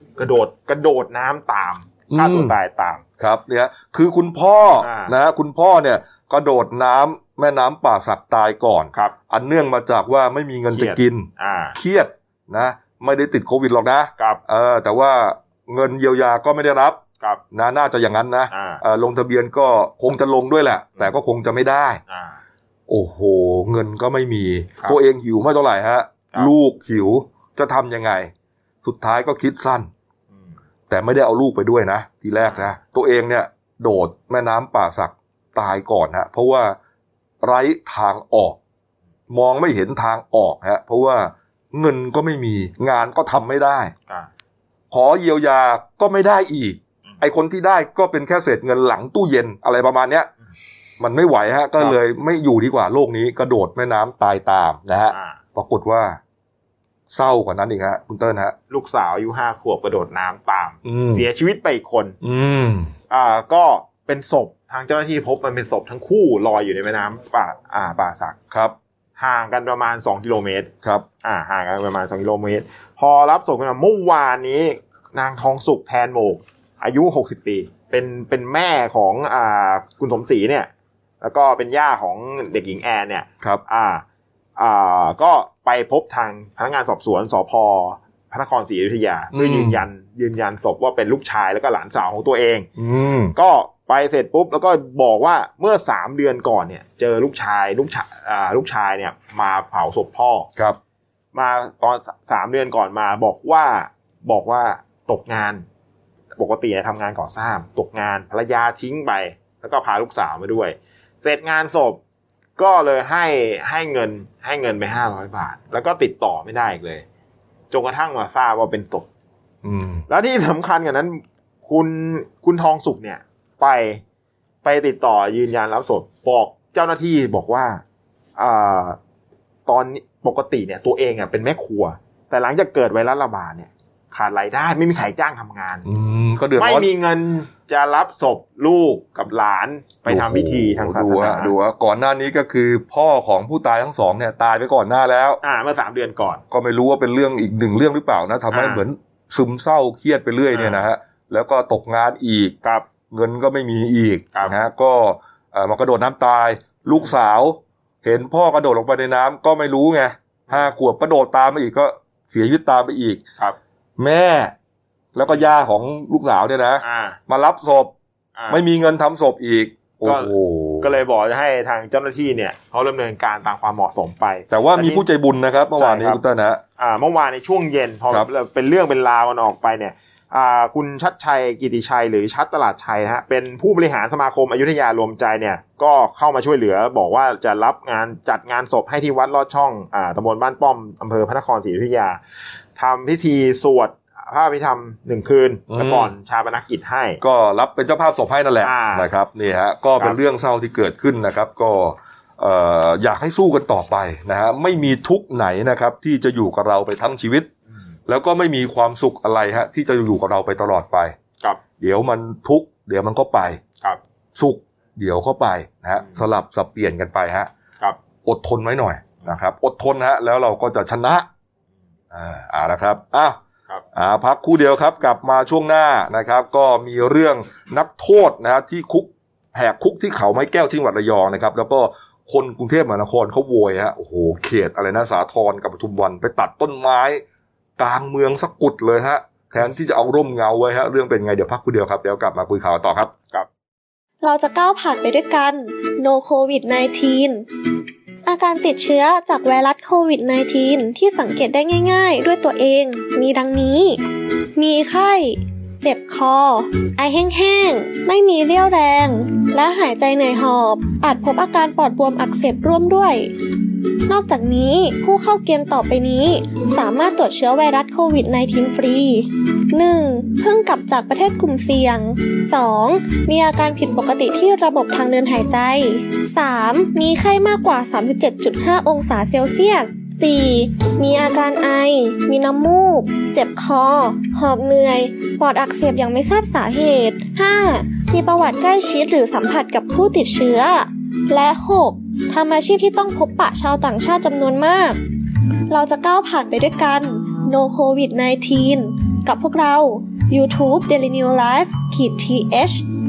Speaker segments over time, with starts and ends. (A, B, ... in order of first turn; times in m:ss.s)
0:00.2-0:03.0 A
0:02.1-0:02.5 B
0:03.2-0:17.0 B
0:04.8-0:05.1 A
0:10.7-0:11.8 A
0:17.5-0:22.0 B
0:18.5-0:18.8 A
0:22.1-0:22.4 A
0:22.9-0:28.3 B
0:28.8-0:29.9 B
0:30.9-0:36.8 B
0:37.4-0:38.6 B
0:39.3-0:43.9 B
0:44.9-0:50.3 B
0:51.0-0:56.2 B
0:55.1-0:55.4 A
0:57.1-0:58.5 B
0:58.7-1:02.2 A
1:00.8-1:01.2 B
1:02.2-1:02.9 B
1:03.1-1:08.4 A
1:08.5-1:08.8 B
1:09.2-1:10.7 A
1:11.2-1:20.7 A
1:21.2-1:24.0 A
1:24.6-1:32.7 A
1:29.3-1:29.8 B
1:32.8-1:33.3 B
1:33.4-1:40.5 A
1:41.3-1:45.6 A
1:46.4-1:52.0 A
1:52.6-1:57.0 A
1:57.7-1:59.1 A
1:59.6-2:00.1 B
2:00.1-2:04.0 A
2:04.6-2:07.8 A
2:08.4-2:09.0 A
2:09.7-2:15.8 A
2:15.8-2:16.9 B
2:16.6-2:21.5 A
2:20.1-2:25.4 B
2:25.4-2:26.4 A
2:26.5-2:32.5 B
2:28.5-2:28.8 A
2:30.5-2:30.8 A
2:33.1-2:43.2 B
2:44.0-2:44.5 B
2:45.1-2:47.9 B
2:46.8-2:47.2 A
2:48.3-2:48.6 A
2:48.5-2:51.0 B
2:50.0-2:55.0 A
2:54.5-2:56.6 B
2:55.8-2:56.2 A
2:56.8-3:12.2 A
3:12.8-3:17.2 A
3:15.7-3:16.1 B
3:17.2-3:27.5 B
3:18.6-3:19.1 A
3:28.1-3:31.2 B
3:31.8-3:33.6 B
3:34.4-3:37.5 B
3:38.2-3:41.3 B
3:42.1-3:43.4 B
3:43.9-3:57.2 B
3:57.8-4:03.1 B
4:04.2-4:07.4 C
4:08.2-4:14.0 C
4:14.6-4:23.3 C
4:24.1-4:55.0 C
4:55.7-5:02.8 C